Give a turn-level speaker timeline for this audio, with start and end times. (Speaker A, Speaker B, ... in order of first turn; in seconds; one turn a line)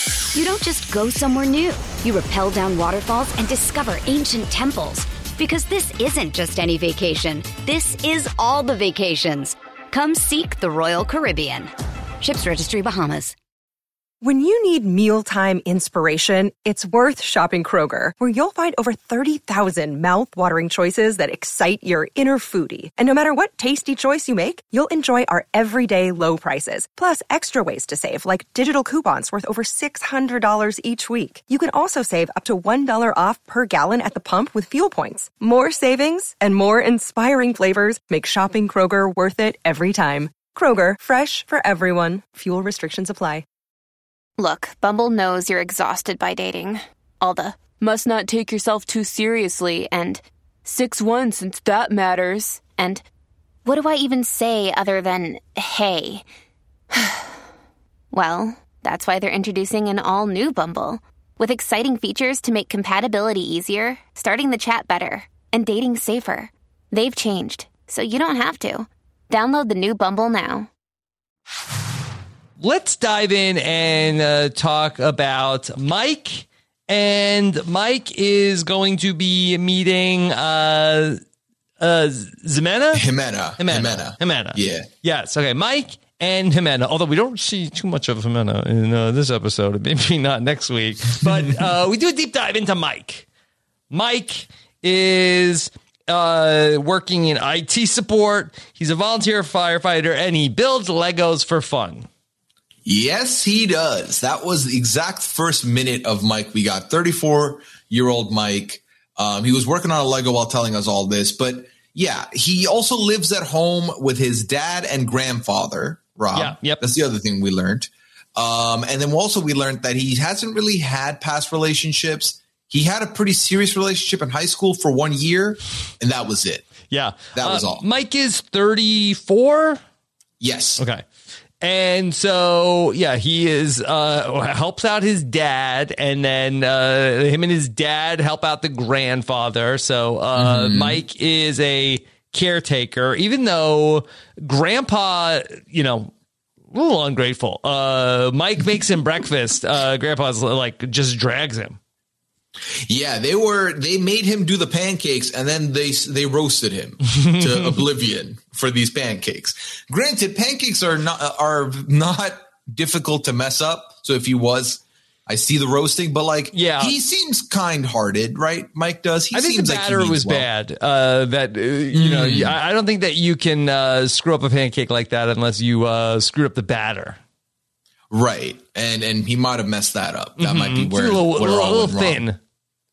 Speaker A: 0.3-13.3
Speaker B: 14.2-43.4
Speaker C: 44.4-53.0
Speaker C: 53.6-56.2
Speaker C: 56.9-57.3
Speaker C: 58.1-70.7
Speaker D: 72.6-81.2
Speaker D: 81.8-83.0
Speaker E: 82.9-84.9
Speaker D: 83.6-93.2
Speaker D: 93.9-102.1
Speaker E: 102.8-126.7
Speaker D: 116.3-116.8
Speaker D: 126.9-129.8
Speaker E: 127.3-127.8
Speaker E: 130.4-130.8
Speaker D: 130.8-131.0
Speaker D: 131.6-146.1
Speaker E: 140.3-141.0
Speaker D: 146.7-151.8
Speaker E: 152.9-170.5
Speaker D: 157.1-157.8
Speaker D: 166.5-166.9
Speaker D: 169.3-177.2
Speaker E: 171.9-172.6
Speaker E: 178.1-182.2
Speaker D: 180.4-182.4